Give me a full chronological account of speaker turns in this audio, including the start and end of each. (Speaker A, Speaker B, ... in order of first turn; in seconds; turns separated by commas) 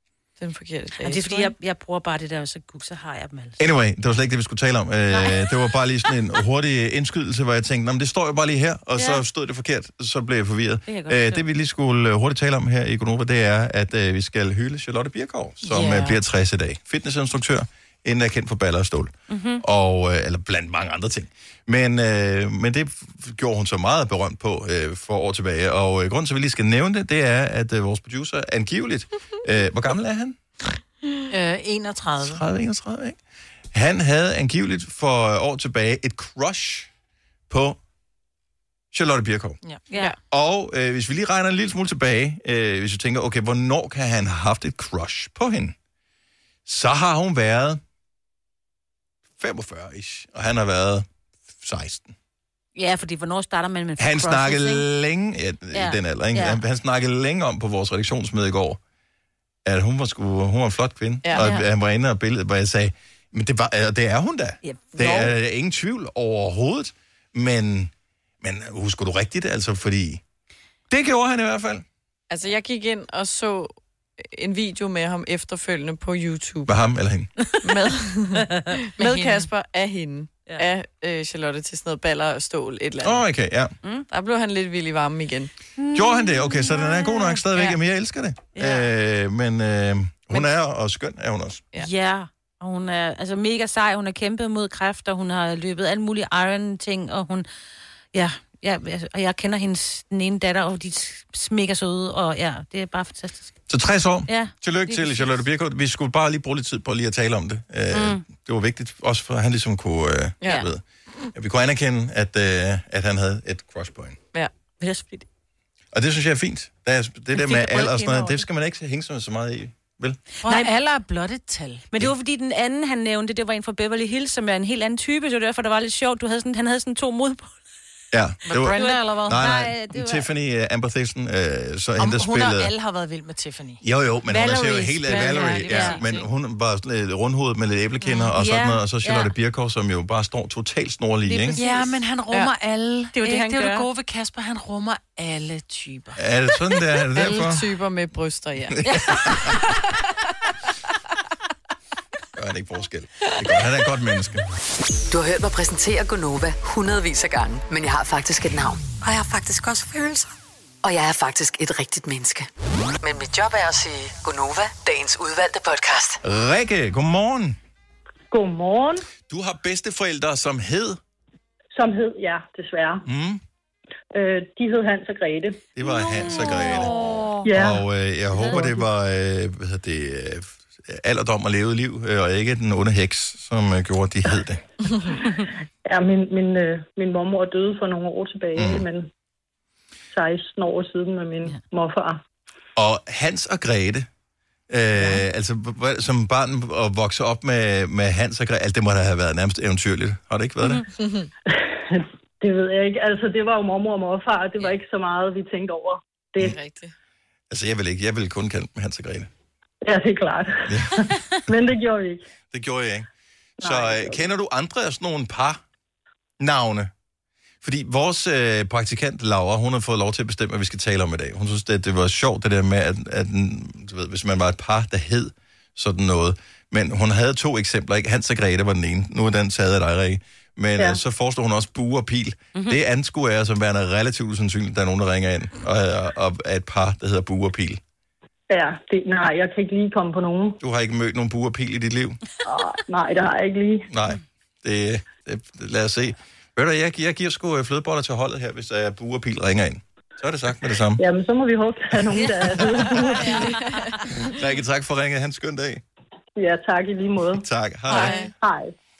Speaker A: 0.4-1.5, Speaker B: 1.0-3.6, Speaker C: 3.6-30.4, Speaker B: 5.1-6.2, Speaker B: 8.9-9.2, Speaker B: 10.8-11.4, Speaker D: 15.7-16.2, Speaker B: 19.3-19.6, Speaker D: 31.3-32.4, Speaker C: 32.2-33.2, Speaker C: 33.7-36.9, Speaker C: 37.5-37.8, Speaker C: 38.9-39.6, Speaker B: 39.9-40.2, Speaker C: 40.3-45.7, Speaker C: 46.6-47.8, Speaker C: 49.4-52.1, Speaker B: 52.7-54.9, Speaker C: 54.0-58.8, Speaker B: 55.7-56.6, Speaker C: 59.6-70.2, Speaker A: 61.2-61.6, Speaker B: 64.6-65.2, Speaker A: 65.0-65.3, Speaker C: 70.9-71.8, Speaker A: 72.3-76.8, Speaker C: 76.7-77.3, Speaker A: 77.6-83.2, Speaker D: 79.0-79.5, Speaker C: 83.0-83.7, Speaker A: 84.1-85.5, Speaker B: 85.8-87.5, Speaker C: 85.9-91.6, Speaker B: 88.5-88.9, Speaker B: 91.7-97.5, Speaker B: 98.1-103.6, Speaker C: 103.7-110.8, Speaker B: 104.3-105.4, Speaker B: 107.9-108.2, Speaker C: 111.3-114.2, Speaker B: 114.8-115.2, Speaker C: 115.9-120.2, Speaker B: 117.3-118.4, Speaker D: 120.4-121.9, Speaker B: 120.4-120.7, Speaker B: 121.9-127.6, Speaker C: 128.1-132.7, Speaker D: 128.5-129.6, Speaker B: 128.6-130.3, Speaker D: 132.0-133.8, Speaker C: 133.8-141.6, Speaker B: 134.3-136.1, Speaker D: 134.5-136.2, Speaker B: 138.0-139.3, Speaker B: 141.3-141.6, Speaker D: 141.5-146.2, Speaker A: 141.6-142.5, Speaker B: 143.2-143.9, Speaker C: 146.2-147.7, Speaker A: 147.1-149.7, Speaker C: 148.8-149.5, Speaker C: 152.3-154.4, Speaker E: 155.1-160.2, Speaker E: 160.8-162.5, Speaker E: 163.0-166.2, Speaker C: 166.2-167.6, Speaker F: 168.3-169.1, Speaker C: 169.3-171.0, Speaker F: 171.7-173.1, Speaker C: 173.1-173.4, Speaker F: 174.1-175.6, Speaker C: 175.8-176.9, Speaker B: 176.0-177.3, Speaker F: 177.4-177.8, Speaker C: 177.5-184.6, Speaker B: 178.3-178.7, Speaker F: 178.4-178.8, Speaker F: 185.8-189.1, Speaker C: 188.6-188.8, Speaker F: 190.1-192.2, Speaker C: 192.8-194.1, Speaker C: 194.7-200.8, Speaker B: 194.9-195.2, Speaker A: 201.0-201.3, Speaker F: 201.6-206.6, Speaker A: 206.4-206.9, Speaker C: 207.5-209.3, Speaker F: 209.8-212.2, Speaker C: 210.7-211.1, Speaker C: 212.5-213.1, Speaker C: 213.6-215.6, Speaker F: 213.6-214.2, Speaker C: 216.4-216.9, Speaker C: 217.6-237.8, Speaker B: 232.5-232.8, Speaker F: 238.5-240.6, Speaker C: 240.6-242.2, Speaker F: 242.4-243.9, Speaker C: 243.9-251.0, Speaker F: 251.0-253.4, Speaker C: 252.7-253.1, Speaker A: 253.1-254.0, Speaker B: 253.3-253.6, Speaker C: 254.1-255.8, Speaker F: 256.4-258.7, Speaker C: 257.4-258.2, Speaker A: 257.9-258.3